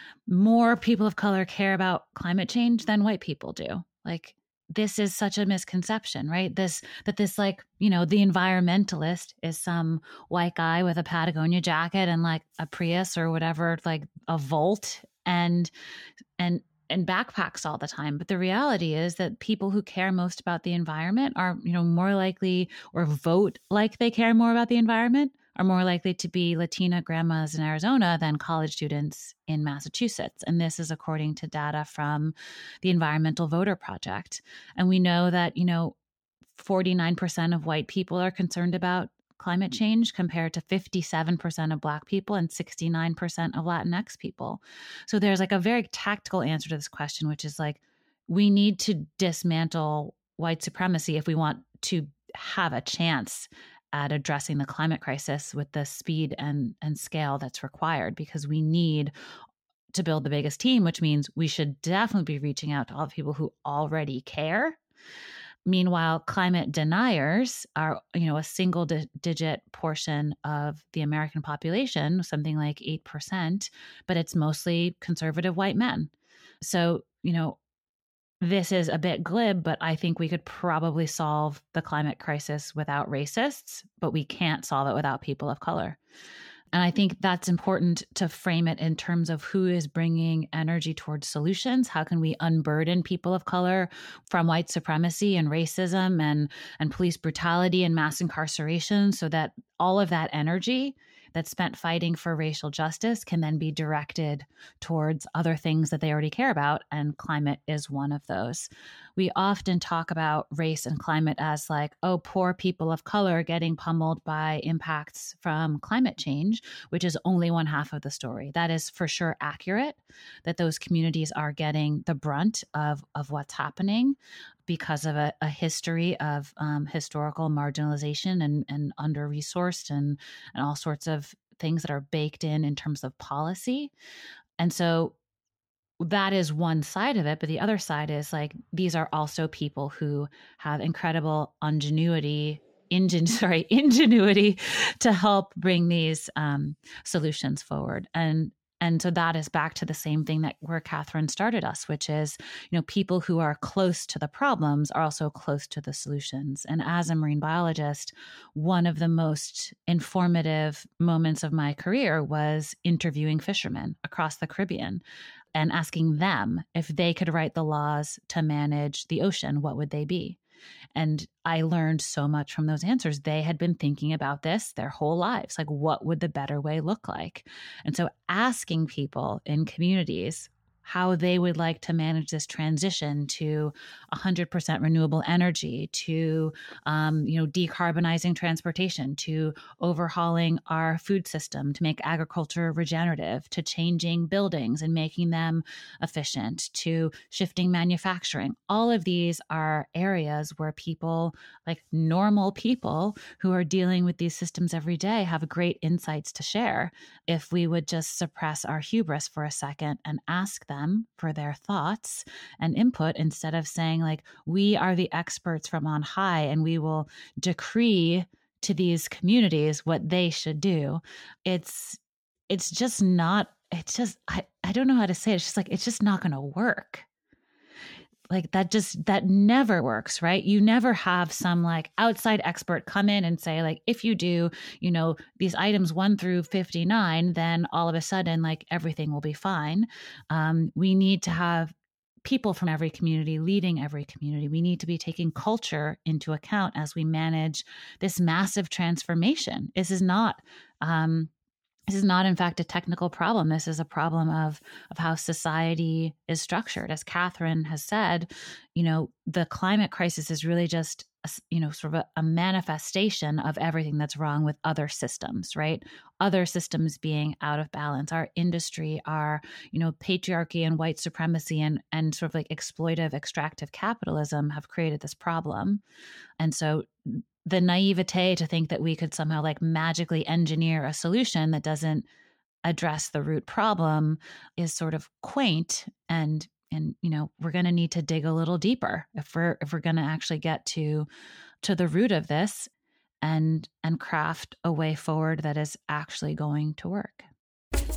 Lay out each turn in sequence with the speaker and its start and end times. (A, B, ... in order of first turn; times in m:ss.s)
0:00.3-0:15.7 A
0:16.4-0:36.0 A
0:36.6-0:59.1 A
0:59.9-1:04.8 A
1:05.7-1:16.1 A
1:16.6-1:17.6 A
1:18.4-1:26.0 A
1:26.7-2:13.9 A
2:14.6-2:15.2 A
2:16.0-2:45.0 A
2:45.6-2:50.4 A
2:51.0-3:47.1 A
3:48.3-4:01.7 A
4:02.2-4:11.3 A
4:11.9-4:35.8 A
4:36.4-4:42.1 A
4:42.6-4:51.1 A
4:51.6-4:52.7 A
4:53.2-4:57.3 A